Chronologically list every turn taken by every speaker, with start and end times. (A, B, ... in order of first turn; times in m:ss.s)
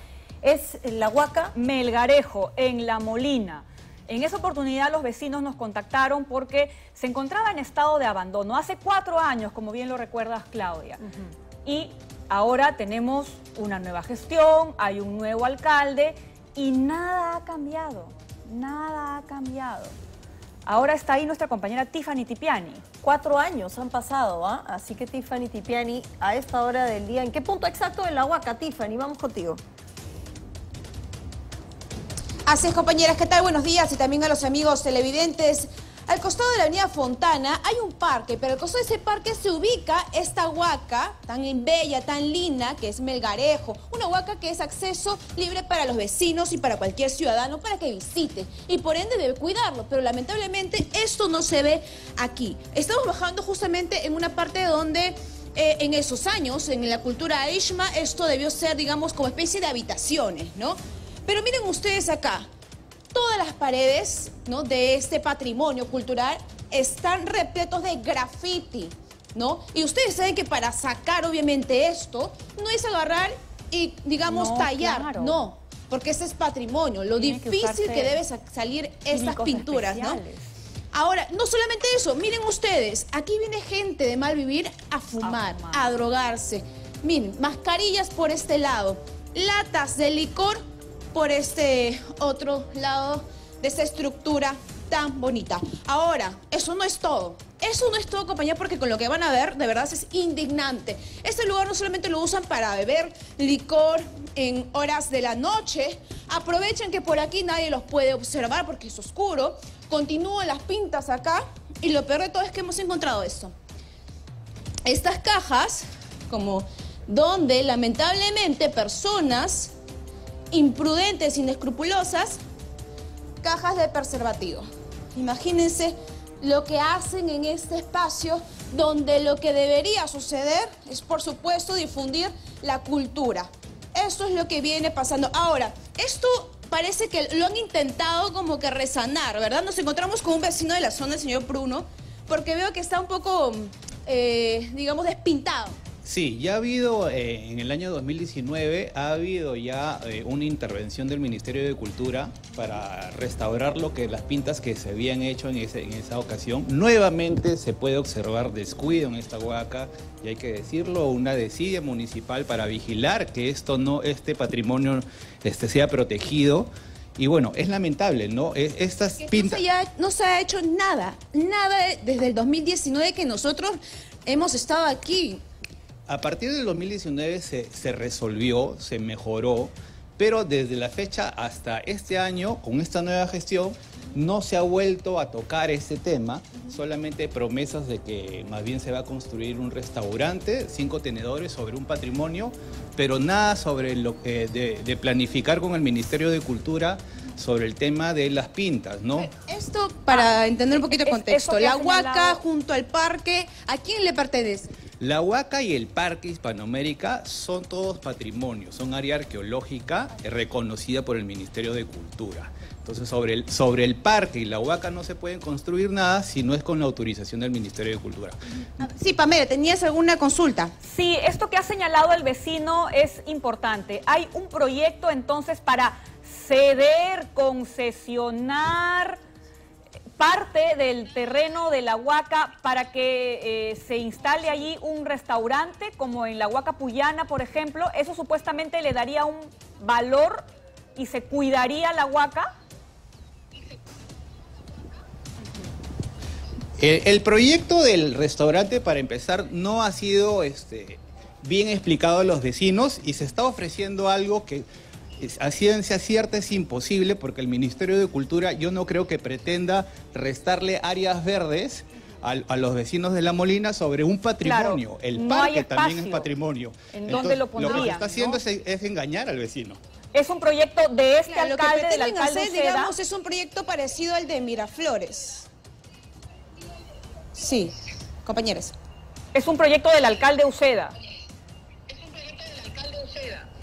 0:00.4-0:01.5 A
0:01.5-0:11.0 B
0:11.6-0:19.9 B
0:20.6-0:22.8 B
0:23.0-0:29.6 A
0:32.4-1:02.5 C
1:03.1-1:20.2 C
1:14.3-1:15.4 B
1:17.1-1:18.2 B
1:19.1-1:20.5 B
1:20.9-1:30.6 C
1:25.2-1:26.0 B
1:31.1-1:53.5 C
1:54.8-1:59.7 C
2:00.5-2:02.4 C
2:03.4-2:25.8 C
2:26.0-2:49.6 D
2:49.2-2:55.4 C
2:56.1-3:19.3 D
3:19.2-3:24.8 C
3:20.9-3:22.4 B
3:24.9-3:38.4 D
3:38.8-3:40.7 C
3:40.8-3:49.2 B
3:50.2-4:00.4 B
4:01.0-4:02.5 B
4:06.8-4:14.6 D
4:15.2-4:29.8 D
4:24.4-4:26.3 B
4:26.9-4:28.4 B
4:30.1-4:32.9 B
4:31.2-4:35.5 C
4:37.3-4:37.7 C
4:38.2-4:38.7 C
4:39.3-4:40.9 B
4:42.8-4:43.3 D